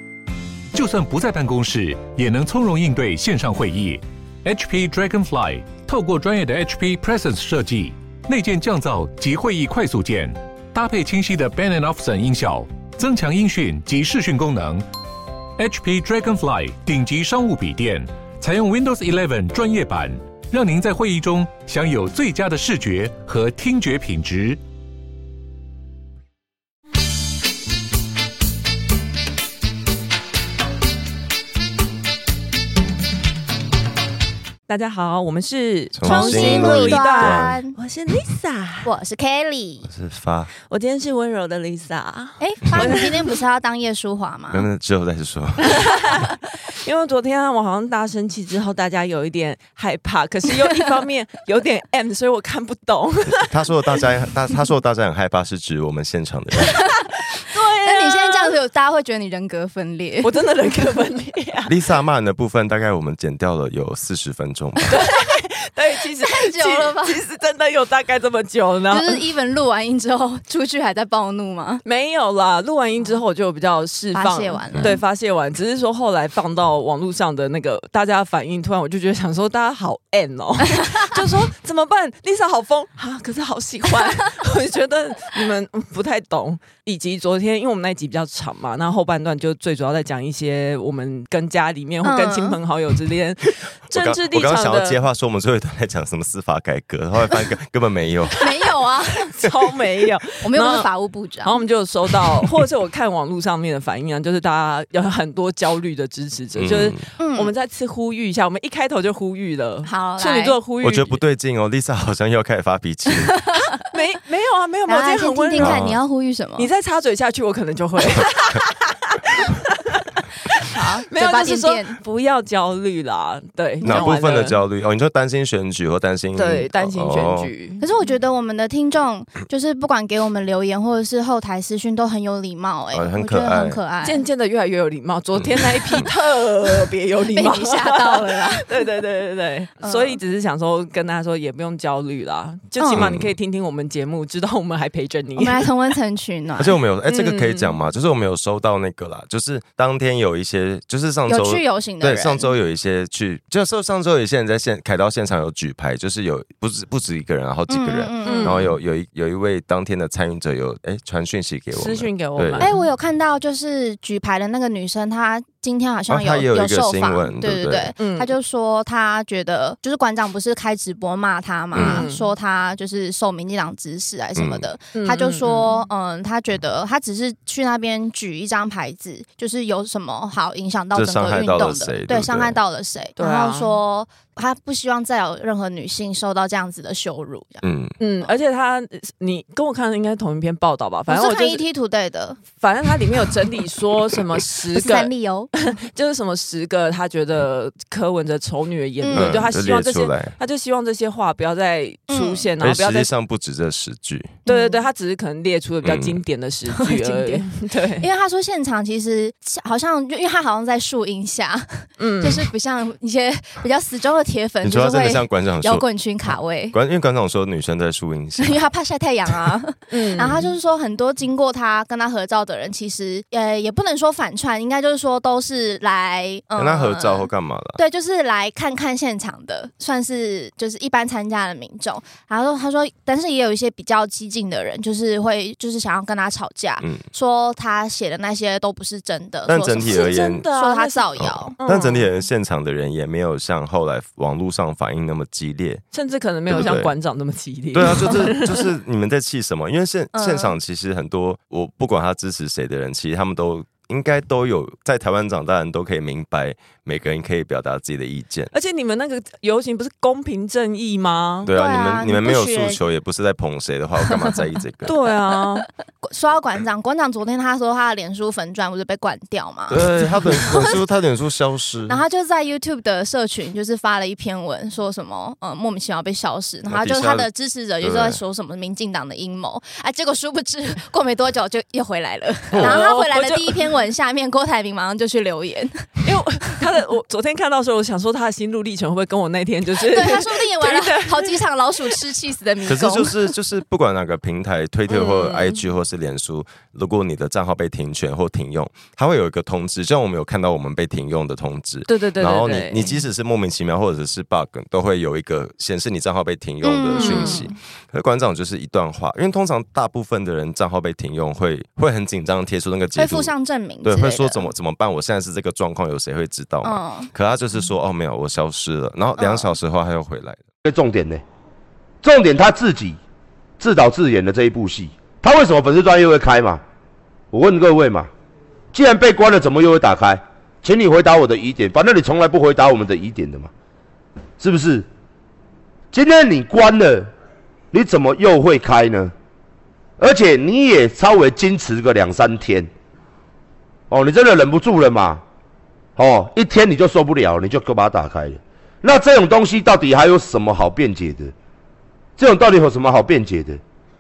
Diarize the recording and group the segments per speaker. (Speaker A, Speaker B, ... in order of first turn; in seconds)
Speaker A: 0.7-14.8, 15.6-24.6
Speaker B: 34.7-38.9, 40.6-43.3, 45.7-53.6, 57.4-58.6, 60.2-61.8, 64.9-69.2, 71.8-95.0, 99.3-100.9, 101.4-111.2, 113.8-115.8, 116.6-124.6, 126.3-127.9, 134.0-145.7, 147.1-147.8, 158.2-158.8, 161.7-162.8, 168.0-168.3, 171.8-172.3, 174.9-175.9, 183.2-183.8, 188.0-191.6, 192.6-203.1, 204.5-208.1, 212.0-212.5, 219.9-220.5, 239.9-242.1, 245.9-248.7, 258.5-261.5, 264.9-265.7, 282.6-283.7, 286.0-291.4, 294.9-295.6, 301.9-302.9, 306.9-307.4
Speaker C: 36.0-37.6, 39.9-40.5, 44.5-46.1, 53.4-56.8, 61.7-64.9, 93.9-98.4, 106.6-107.0, 110.8-113.3, 115.6-116.0, 123.8-127.5, 132.9-133.8, 135.4-136.0, 142.9-143.3, 146.6-162.7, 166.1-167.9, 171.7-172.1, 174.4-174.7, 180.9-182.6, 187.6-187.9, 199.1-200.3, 202.6-204.4, 205.8-206.2, 214.6-215.8, 216.7-218.6, 226.6-227.8, 239.5-240.5, 241.2-245.8, 246.5-246.9, 247.7-258.5, 261.4-264.9, 269.7-272.0, 276.7-277.3, 277.8-278.2, 282.5-282.8, 292.7-313.3, 313.8-320.4
Speaker D: 36.0-37.8, 38.8-39.9, 42.4-44.7, 57.8-60.4, 66.2-67.2, 68.9-71.8, 74.1-75.0, 92.0-92.6, 98.4-99.3, 100.4-101.6, 107.2-107.5, 109.9-110.6, 113.2-113.8, 114.9-116.7, 120.7-122.0, 123.8-124.1, 127.8-134.2, 137.3-138.7, 139.8-140.2, 142.8-143.1, 145.4-146.8, 151.3-152.5, 157.7-158.6, 162.6-187.7, 191.1-192.4, 194.7-195.5, 199.0-199.4, 202.1-202.5, 204.5-204.8, 206.7-207.4, 208.0-216.8, 218.4-241.6, 250.1-250.6, 261.5-262.8, 266.0-270.8, 271.9-285.9, 289.9-293.3, 306.6-307.5, 313.0-314.5, 316.6-317.1, 319.2-319.6
Speaker E: 320.6-321.2, 322.0-323.0, 323.6-326.6, 327.3-328.1, 328.7-333.5, 334.4-334.9, 335.9-337.1, 337.7-339.1, 340.0-342.7, 343.9-345.2, 346.0-351.3, 352.2-353.6